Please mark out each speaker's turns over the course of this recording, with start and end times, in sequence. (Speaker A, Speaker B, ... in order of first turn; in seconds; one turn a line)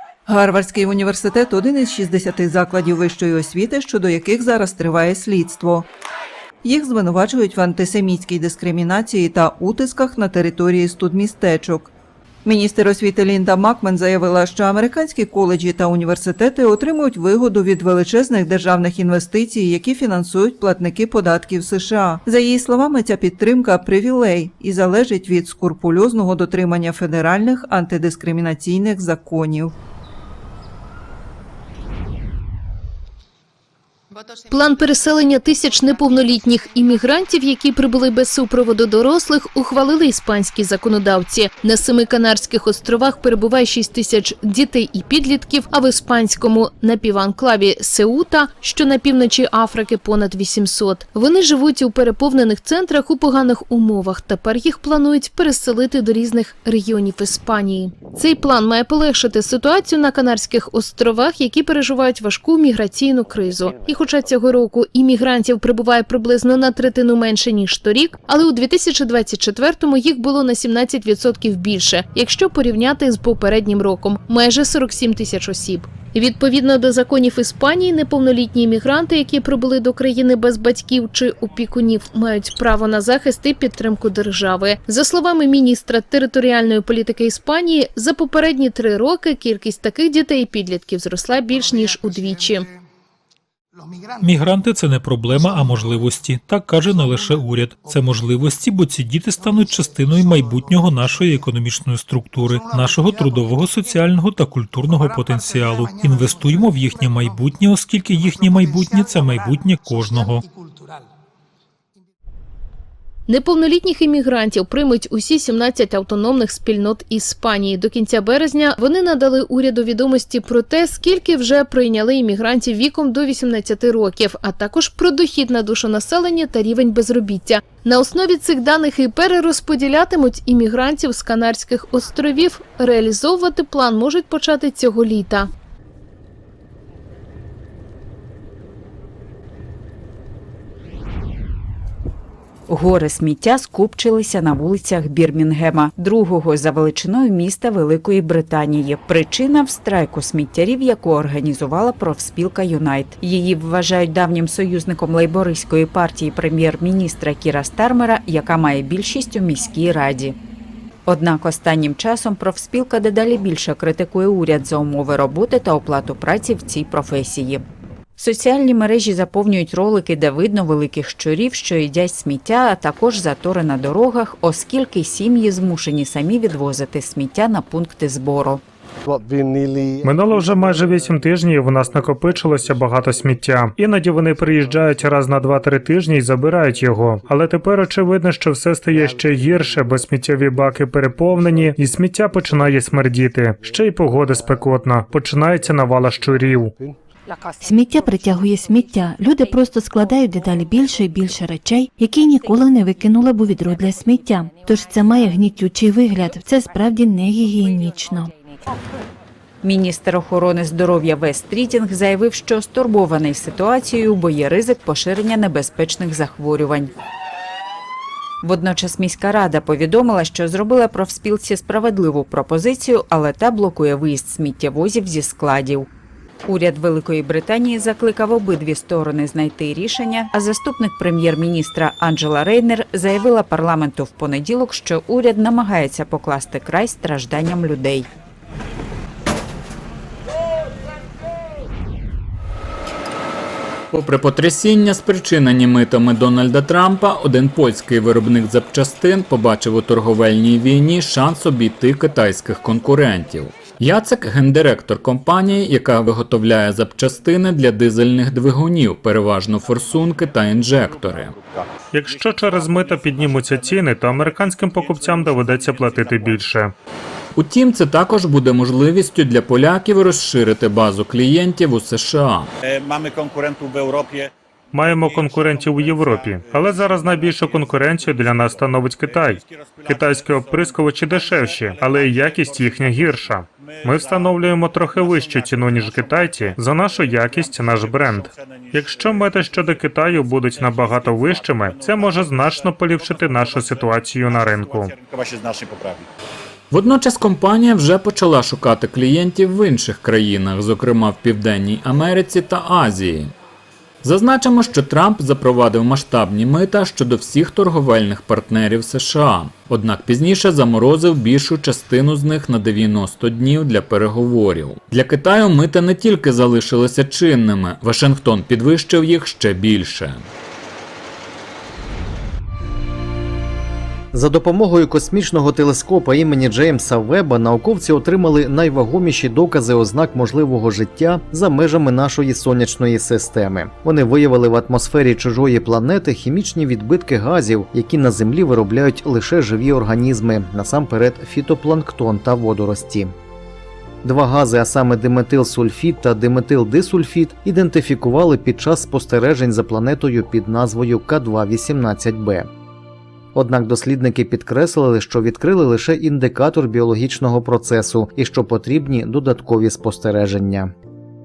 Speaker A: 0.2-5.9
Speaker A: 6.6-11.9
Speaker A: 12.4-29.7
Speaker B: 34.5-92.7
Speaker C: 94.2-110.4
Speaker B: 113.3-135.5
Speaker D: 142.7-160.4
Speaker D: 161.1-167.6
Speaker D: 168.2-178.6
Speaker E: 180.0-196.7
Speaker F: 197.6-208.3
Speaker D: 209.6-216.9
Speaker D: 218.4-225.9
Speaker D: 226.4-238.1
Speaker G: 243.9-261.3
Speaker H: 261.2-261.7
Speaker E: 261.9-266.7
Speaker H: 264.5-266.4
Speaker G: 267.4-272.5
Speaker H: 272.6-274.3
Speaker E: 274.7-294.9
Speaker H: 275.4-276.1
Speaker H: 279.8-280.2
Speaker H: 284.1-284.4
Speaker H: 285.6-286.2
Speaker H: 290.9-291.2
Speaker H: 293.3-296.1
Speaker G: 296.7-303.3
Speaker G: 304.0-320.3
Speaker I: 324.1-343.1
Speaker I: 344.0-352.5
Speaker I: 353.3-360.7